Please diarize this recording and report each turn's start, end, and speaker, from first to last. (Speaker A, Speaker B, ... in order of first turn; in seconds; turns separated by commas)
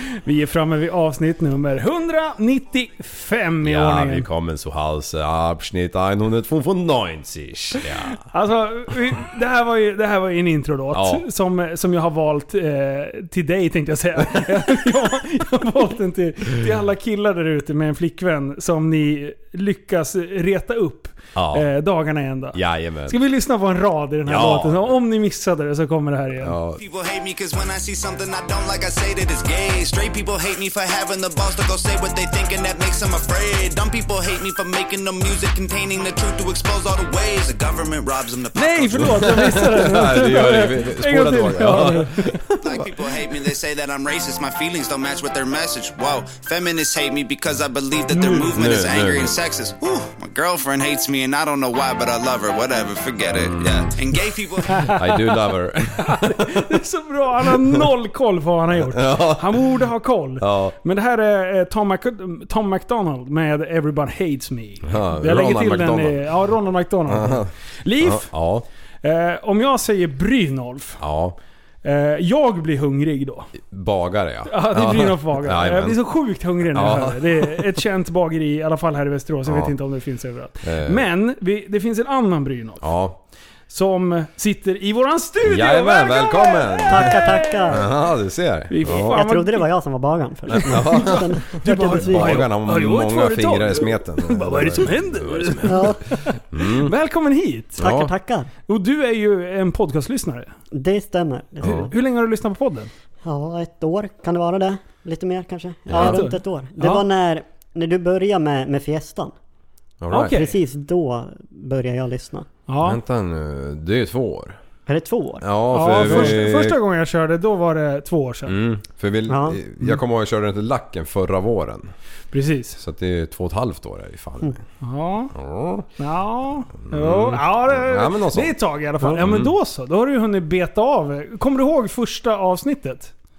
Speaker A: 0.2-4.3, Speaker B: 3.6-8.2, Speaker A: 8.1-26.6, Speaker B: 10.9-11.2, Speaker B: 21.3-21.7, Speaker B: 22.5-23.2, Speaker B: 24.2-24.9, Speaker B: 26.4-26.8, Speaker C: 26.8-39.6, Speaker A: 38.5-42.5, Speaker B: 39.0-42.8, Speaker C: 42.6-55.0, Speaker A: 48.1-48.6, Speaker B: 48.5-49.3, Speaker B: 53.4-53.9, Speaker A: 54.7-55.3, Speaker B: 54.8-56.8, Speaker A: 56.0-68.3, Speaker B: 57.4-57.9, Speaker B: 58.7-60.8, Speaker B: 64.8-66.3, Speaker B: 67.0-68.7, Speaker A: 69.0-71.0, Speaker B: 71.0-71.4, Speaker A: 71.8-73.5, Speaker B: 73.6-76.0, Speaker A: 74.5-82.9, Speaker B: 76.6-77.8, Speaker B: 79.5-79.7, Speaker B: 80.6-81.1, Speaker B: 82.8-83.2, Speaker A: 83.7-87.9, Speaker B: 85.4-89.2, Speaker D: 86.9-87.8, Speaker A: 88.7-89.7, Speaker D: 88.9-92.4, Speaker B: 90.5-96.9, Speaker A: 90.5-97.8, Speaker D: 95.6-96.0, Speaker B: 97.8-98.1, Speaker D: 97.8-98.5, Speaker A: 98.7-100.5, Speaker D: 100.7-101.9, Speaker B: 101.6-101.9, Speaker A: 101.6-102.9, Speaker D: 103.2-109.3, Speaker B: 105.9-106.2, Speaker A: 105.9-107.0, Speaker B: 110.0-110.4, Speaker A: 110.1-110.5, Speaker D: 110.2-112.5, Speaker A: 112.7-113.0, Speaker B: 112.8-114.6, Speaker D: 114.9-116.4, Speaker B: 115.4-116.8, Speaker A: 115.7-118.5, Speaker B: 118.5-121.9, Speaker D: 119.3-119.6, Speaker A: 122.3-122.8, Speaker B: 122.8-124.6, Speaker A: 124.8-125.3, Speaker B: 125.3-125.9, Speaker A: 126.0-133.1, Speaker B: 126.8-128.6, Speaker B: 129.1-129.5